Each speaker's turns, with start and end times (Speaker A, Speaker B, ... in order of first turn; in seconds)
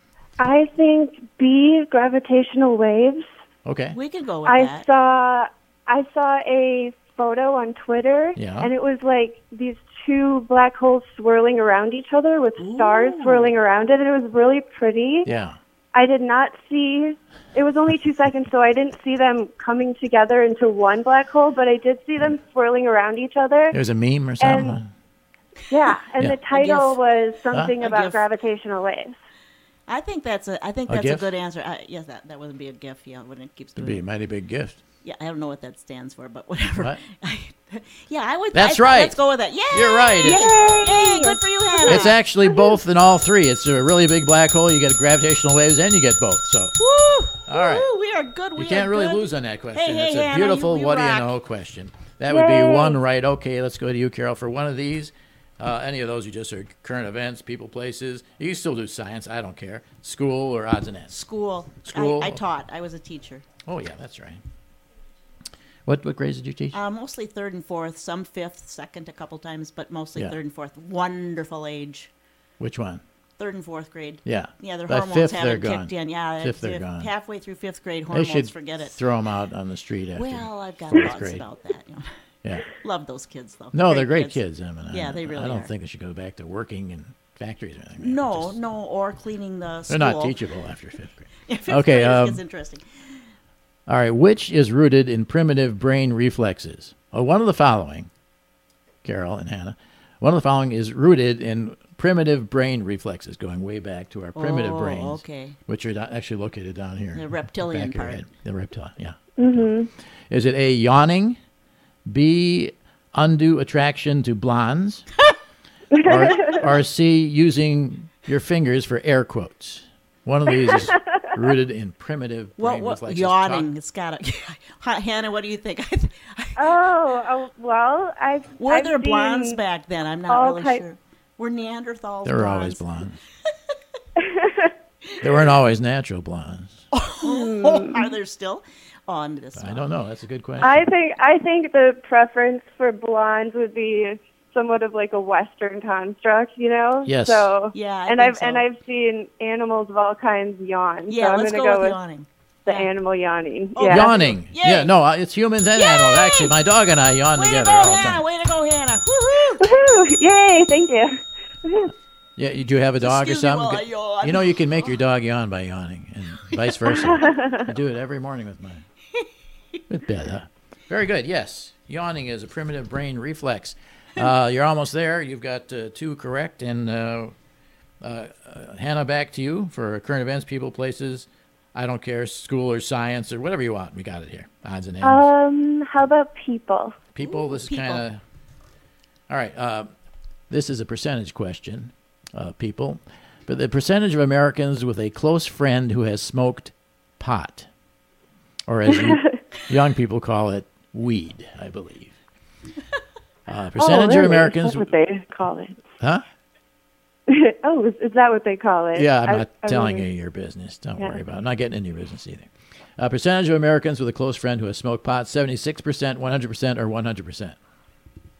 Speaker A: 0.4-3.2, 4.4-15.3, 15.9-23.8, 24.4-24.8, 25.7-29.1, 40.2-42.6, 52.3-53.0, 109.4-109.9, 115.9-116.6, 120.5-121.3, 126.6-129.6, 130.3-130.8, 134.2-134.7, 137.2-138.1, 140.6-151.9, 152.7-154.2, 159.6-161.9, 166.8-167.7, 185.0-187.0, 198.9-199.4, 203.8-205.8, 207.3-210.0
Speaker B: 3.6-4.0, 8.3-8.7, 15.2-15.6, 23.7-24.9, 30.9-31.2, 33.8-34.8, 38.5-39.2, 39.7-40.5, 41.9-46.7, 47.5-47.9, 48.5-61.1, 61.8-62.4, 63.6-64.4, 65.8-66.8, 72.6-73.0, 74.2-77.1, 78.1-81.4, 82.4-82.7, 83.7-88.5, 89.9-92.4, 93.9-98.1, 99.0-109.7, 110.3-111.4, 112.1-115.1, 116.0-123.7, 132.2-133.2, 135.2-136.8, 139.6-140.8, 147.1-147.5, 153.9-158.2, 162.4-168.8, 169.9-177.3, 178.0-185.3, 187.1-188.2, 189.3-189.9, 190.5-197.7, 198.7-202.2, 203.5-204.9, 208.9-217.6
Speaker C: 3.9-4.9, 12.6-13.5, 26.5-27.0, 27.8-28.2, 29.9-34.0, 35.0-42.2, 46.8-51.3, 61.1-63.5, 66.7-72.1, 73.4-78.9, 80.2-82.1, 82.7-84.4, 84.9-85.7, 88.0-90.3, 91.5-93.2, 104.3-105.6, 107.1-108.2, 122.6-126.8, 128.6-132.8, 136.9-139.9, 147.7-148.6, 151.1-152.9, 153.7-154.9, 155.7-156.5, 157.3-159.7, 163.0-164.7, 169.1-169.8, 187.2-188.0